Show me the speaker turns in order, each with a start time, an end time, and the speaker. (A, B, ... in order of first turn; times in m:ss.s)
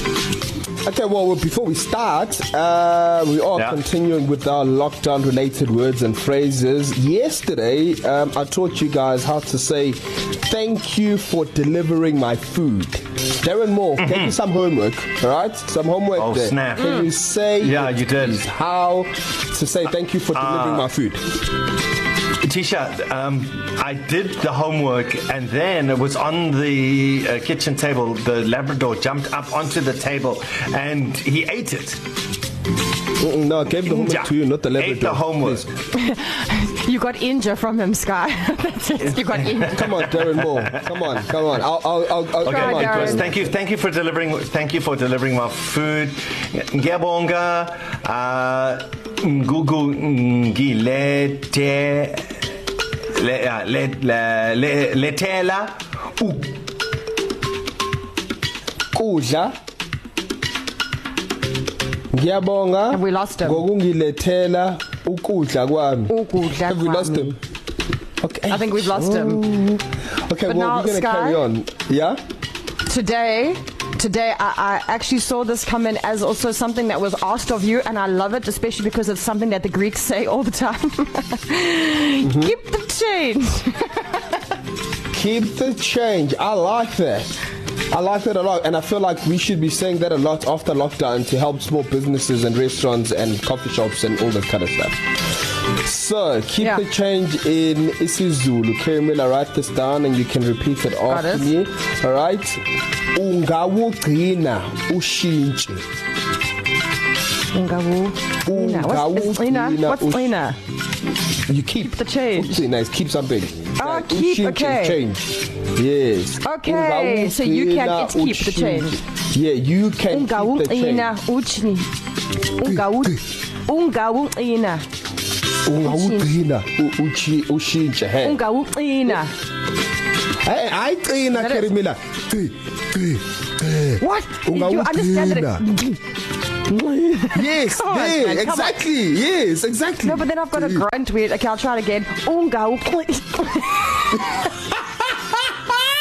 0:00.8-0:21.2 A
0:14.0-0:14.4 B
0:16.2-0:17.0 B
0:16.8-0:17.1 C
0:17.6-0:18.4 B
0:20.3-0:20.9 B
0:22.4-0:32.0 B
0:33.2-0:35.7 A
0:33.8-0:35.7 B
0:35.9-0:40.0 C
0:39.6-0:41.2 B
0:39.7-0:43.4 A
0:42.4-0:52.2 B
0:42.4-0:43.4 C
0:53.1-0:56.5 B
0:58.9-0:59.5 A
1:02.1-1:07.4 A
1:02.9-1:03.6 C
1:06.1-1:07.4 C
1:08.2-1:12.2 A
1:08.5-1:09.5 C
1:10.5-1:11.4 C
1:12.9-1:24.2 C
1:22.2-1:22.6 A
1:25.1-1:27.3 A
1:27.9-1:35.0 A
1:35.7-1:42.6 A
1:41.1-1:41.5 C
1:43.1-1:45.8 A
1:47.5-1:50.6 C
1:48.4-1:50.4 A
1:51.4-2:01.1 A
1:51.8-1:52.6 C
1:53.8-1:55.0 C
1:56.4-1:59.0 C
2:00.1-2:01.9 C
2:02.5-2:04.8 C
2:02.6-2:03.2 A
2:05.6-2:08.4 A
2:05.8-2:06.4 C
2:08.2-2:09.3 C
2:10.4-2:15.7 A
2:11.3-2:11.7 C
2:14.0-2:16.0 C
2:16.7-2:18.8 C
2:17.1-2:20.9 A
2:20.0-2:24.3 C